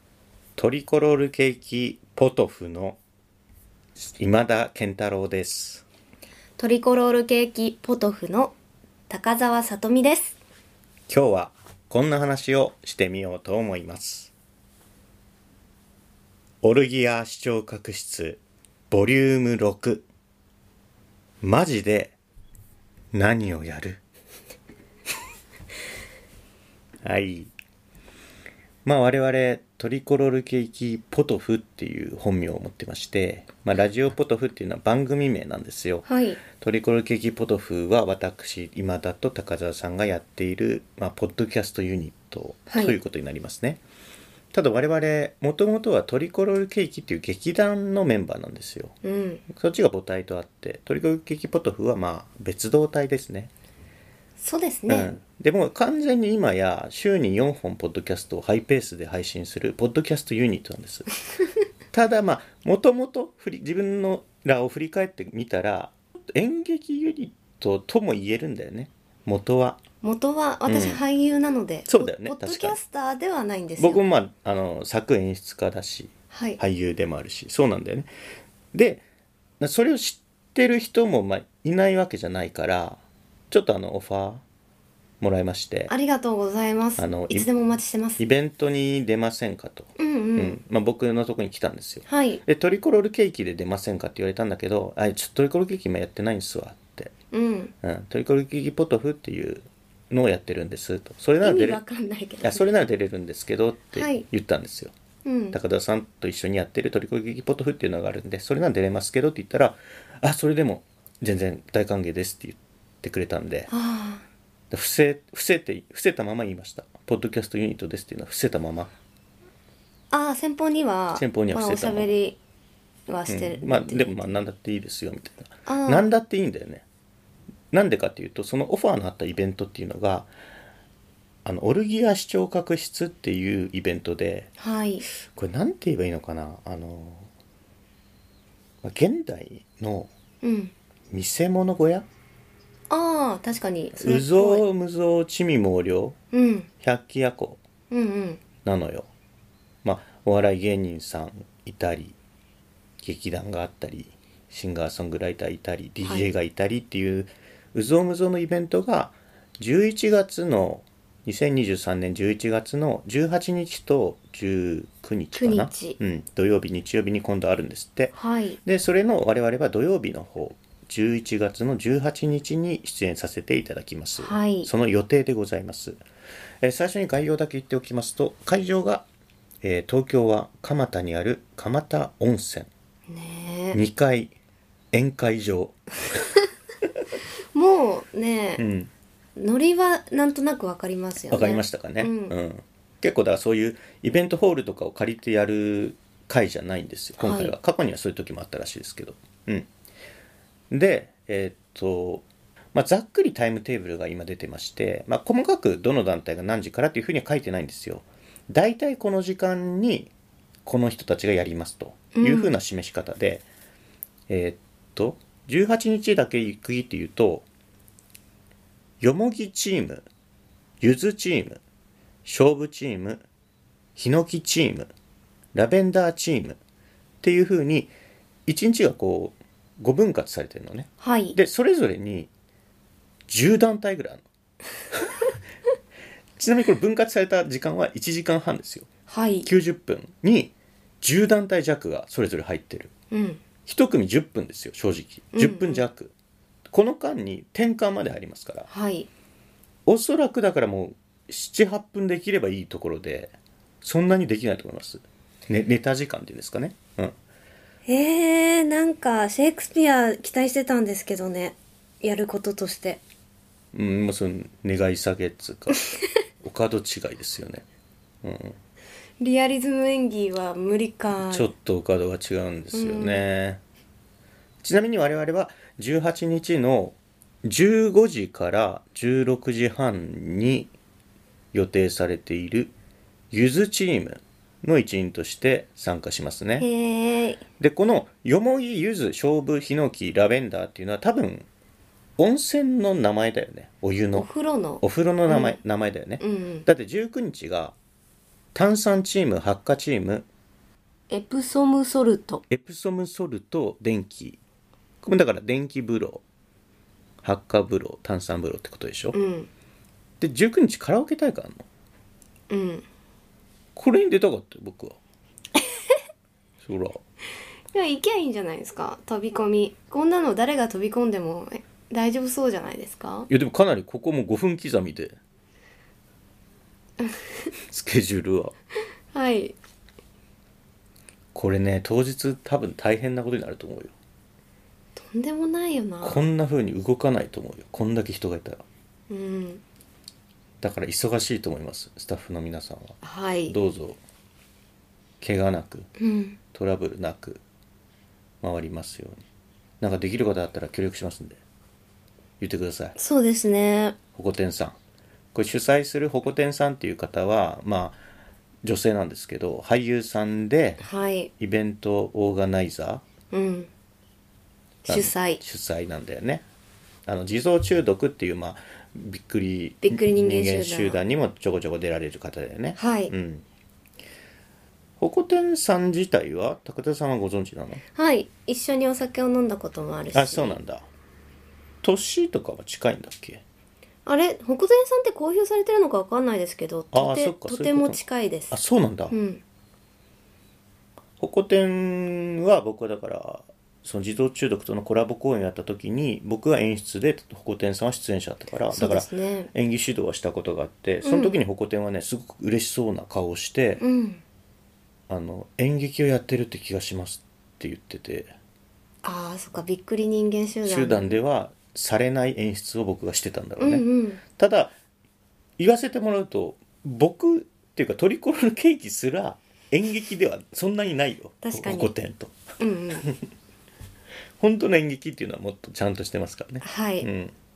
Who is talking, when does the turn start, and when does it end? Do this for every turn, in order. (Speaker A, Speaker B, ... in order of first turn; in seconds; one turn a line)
Speaker A: 0.6-3.0
Speaker A: 4.0-5.8
Speaker B: 6.6-8.5
Speaker B: 9.1-10.3
Speaker A: 11.1-14.3
Speaker A: 16.6-18.4
Speaker A: 18.9-20.1
Speaker A: 21.4-22.1
Speaker A: 23.1-24.0
Speaker A: 27.0-27.5
Speaker A: 28.8-43.8
Speaker B: 36.1-36.4
Speaker B: 42.7-43.0
Speaker A: 44.5-48.9
Speaker B: 49.0-49.4
Speaker A: 49.5-53.5
Speaker B: 54.4-55.1
Speaker A: 54.9-61.1
Speaker A: 61.9-69.8
Speaker B: 70.0-74.0
Speaker A: 70.7-71.0
Speaker A: 71.9-72.8
Speaker A: 73.8-78.1
Speaker B: 76.3-76.6
Speaker A: 78.7-79.0
Speaker A: 79.6-84.4
Speaker A: 85.2-85.9
Speaker B: 85.9-88.2
Speaker A: 87.0-87.5
Speaker A: 88.2-97.1
Speaker B: 90.0-90.6
Speaker B: 92.1-92.4
Speaker B: 97.3-97.7
Speaker A: 97.8-101.8
Speaker B: 101.4-102.7
Speaker A: 102.4-104.9
Speaker B: 103.9-104.2
Speaker B: 105.2-105.6
Speaker A: 105.5-113.7
Speaker B: 113.7-114.2
Speaker A: 114.7-118.9
Speaker B: 120.1-122.4
Speaker A: 121.1-122.1
Speaker B: 123.1-124.3
Speaker A: 123.3-126.8
Speaker B: 125.7-126.1
Speaker A: 127.7-130.3
Speaker A: 131.4-134.5
Speaker B: 134.6-135.1
Speaker A: 135.2-137.3
Speaker A: 138.8-140.1
Speaker B: 140.4-140.7
Speaker A: 141.1-142.1
Speaker B: 142.9-144.6
Speaker A: 144.0-146.2
Speaker B: 146.3-146.7
Speaker A: 146.8-147.6
Speaker B: 147.9-148.4
Speaker A: 148.6-149.1
Speaker A: 149.8-152.2
Speaker A: 153.0-176.0
Speaker B: 165.3-166.0
Speaker B: 168.1-168.6
Speaker B: 174.2-174.7
Speaker A: 176.6-179.0
Speaker A: 179.6-182.7
Speaker B: 183.1-183.8
Speaker A: 183.7-184.3
Speaker A: 184.9-186.3
Speaker B: 187.5-188.6
Speaker A: 188.6-188.9
Speaker B: 189.3-192.3
Speaker A: 191.3-199.7
Speaker B: 197.2-197.5
Speaker A: 200.7-210.1
Speaker A: 210.6-213.4
Speaker B: 212.1-212.5
Speaker A: 214.3-217.4
Speaker A: 219.0-220.0
Speaker A: 220.8-221.6
Speaker A: 222.2-223.2
Speaker A: 223.9-224.9
Speaker A: 225.5-226.6
Speaker A: 227.2-227.9
Speaker A: 228.5-232.3
Speaker B: 231.0-231.4
Speaker A: 233.3-234.2
Speaker A: 234.9-235.2
Speaker A: 236.4-238.9
Speaker B: 239.1-239.5
Speaker A: 239.4-242.9
Speaker B: 243.1-243.4
Speaker A: 243.7-246.1
Speaker B: 245.3-245.8
Speaker A: 246.7-248.7
Speaker B: 248.7-249.1
Speaker A: 249.8-257.1
Speaker B: 257.9-263.0
Speaker A: 263.7-265.8
Speaker A: 266.4-267.6
Speaker A: 268.2-268.6
Speaker B: 269.2-271.5
Speaker A: 271.2-273.6
Speaker B: 272.7-273.2
Speaker A: 274.6-280.7
Speaker A: 281.5-282.7
Speaker A: 283.3-286.7
Speaker B: 286.6-287.4
Speaker A: 287.6-291.5
Speaker A: 292.2-294.3
Speaker B: 294.1-295.6
Speaker A: 294.8-297.7
Speaker B: 296.2-296.7
Speaker A: 298.5-300.2
Speaker B: 301.1-302.4
Speaker A: 302.5-304.4
Speaker A: 305.0-306.2
Speaker A: 307.2-309.2
Speaker B: 309.1-309.5
Speaker A: 310.2-311.6
Speaker B: 312.5-312.8
Speaker A: 313.8-315.0
Speaker A: 316.6-317.0
Speaker B: 317.7-323.3
Speaker A: 323.3-325.2
Speaker B: 327.0-327.5
Speaker A: 327.7-328.5
Speaker B: 329.1-329.6
Speaker A: 331.3-333.9
Speaker B: 335.0-336.2
Speaker A: 336.0-338.6
Speaker B: 339.1-339.6
Speaker A: 340.6-343.0
Speaker B: 343.0-343.6
Speaker A: 343.5-344.0
Speaker A: 345.2-345.9
Speaker B: 346.0-346.4
Speaker A: 346.5-347.4
Speaker A: 348.4-349.2
Speaker A: 349.8-351.4
Speaker A: 352.4-352.9
Speaker B: 352.9-354.0
Speaker A: 354.1-354.8
Speaker A: 355.3-358.0
Speaker A: 358.6-360.8
Speaker B: 360.8-361.3
Speaker A: 361.4-363.0
Speaker B: 363.3-363.7
Speaker B: 364.9-365.4
Speaker A: 364.9-366.4
Speaker A: 367.1-373.4
Speaker B: 369.8-371.0
Speaker B: 372.8-373.1
Speaker A: 375.0-377.8
Speaker B: 377.9-380.6
Speaker A: 380.1-380.9
Speaker A: 381.8-383.4
Speaker B: 384.1-388.6
Speaker A: 386.9-388.0
Speaker A: 388.5-389.1
Speaker B: 389.1-389.4
Speaker A: 391.2-403.8
Speaker B: 398.7-399.5
Speaker B: 401.0-401.4
Speaker B: 403.8-404.2
Speaker A: 405.1-408.3
Speaker B: 409.0-411.2
Speaker A: 410.6-414.7
Speaker B: 413.6-414.2
Speaker A: 415.6-422.4
Speaker B: 421.4-421.9
Speaker B: 422.6-423.1
Speaker A: 423.0-423.3
Speaker A: 424.4-427.3
Speaker B: 426.6-427.1